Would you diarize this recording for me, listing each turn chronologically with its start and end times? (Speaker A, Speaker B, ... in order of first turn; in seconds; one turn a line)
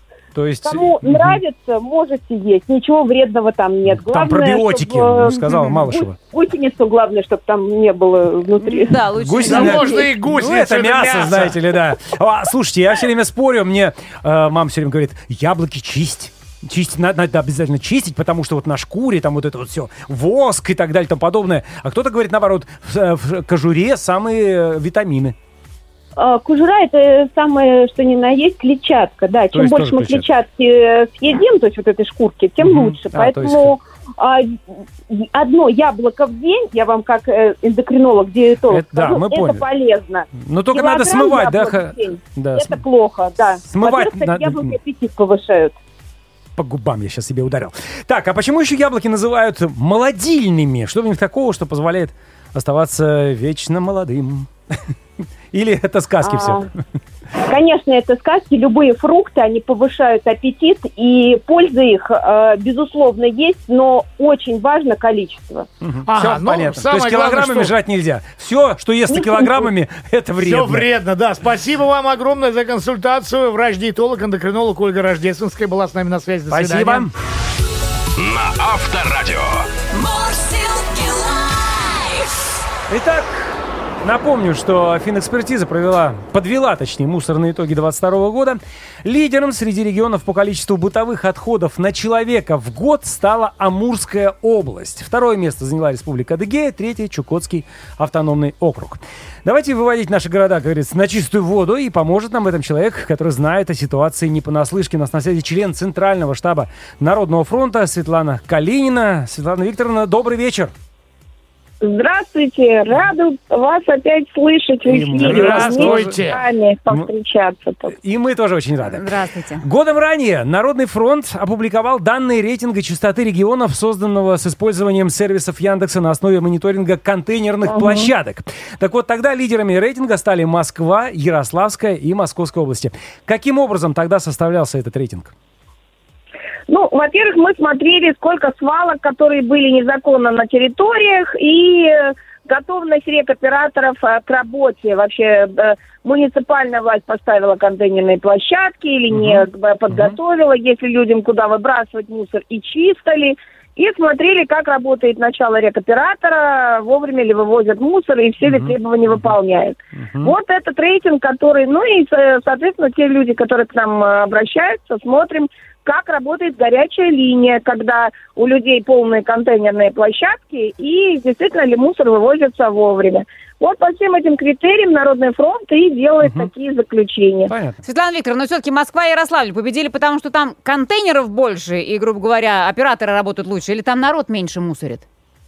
Speaker A: 0.3-1.4
Speaker B: 0.7-9.1
Speaker A: 3.9-6.2
Speaker C: 8.6-10.1
Speaker A: 9.2-25.4
Speaker D: 9.5-11.6
Speaker B: 26.2-34.6
Speaker A: 29.5-30.3
Speaker A: 32.6-33.8
Speaker B: 35.1-45.8
Speaker A: 38.7-39.7
Speaker A: 40.4-42.8
Speaker A: 43.7-44.8
Speaker A: 46.6-54.5
Speaker A: 55.5-56.7
Speaker B: 56.2-56.7
Speaker B: 57.4-65.7
Speaker A: 65.8-70.9
Speaker D: 66.1-67.7
Speaker B: 69.1-69.7
Speaker D: 70.4-77.1
Speaker A: 76.5-77.1
Speaker E: 78.2-81.3
Speaker A: 82.9-110.7
Speaker F: 111.8-118.0
Speaker A: 114.9-116.2
Speaker D: 115.2-116.4
Speaker A: 117.9-119.0
Speaker C: 118.8-119.6
Speaker A: 119.6-135.3
Speaker F: 127.7-128.1
Speaker F: 136.7-177.5
Speaker A: 149.1-150.2
Speaker A: 158.4-159.3
Speaker A: 160.0-160.3
Speaker A: 176.2-176.5
Speaker A: 177.5-177.8
Speaker C: 177.8-185.0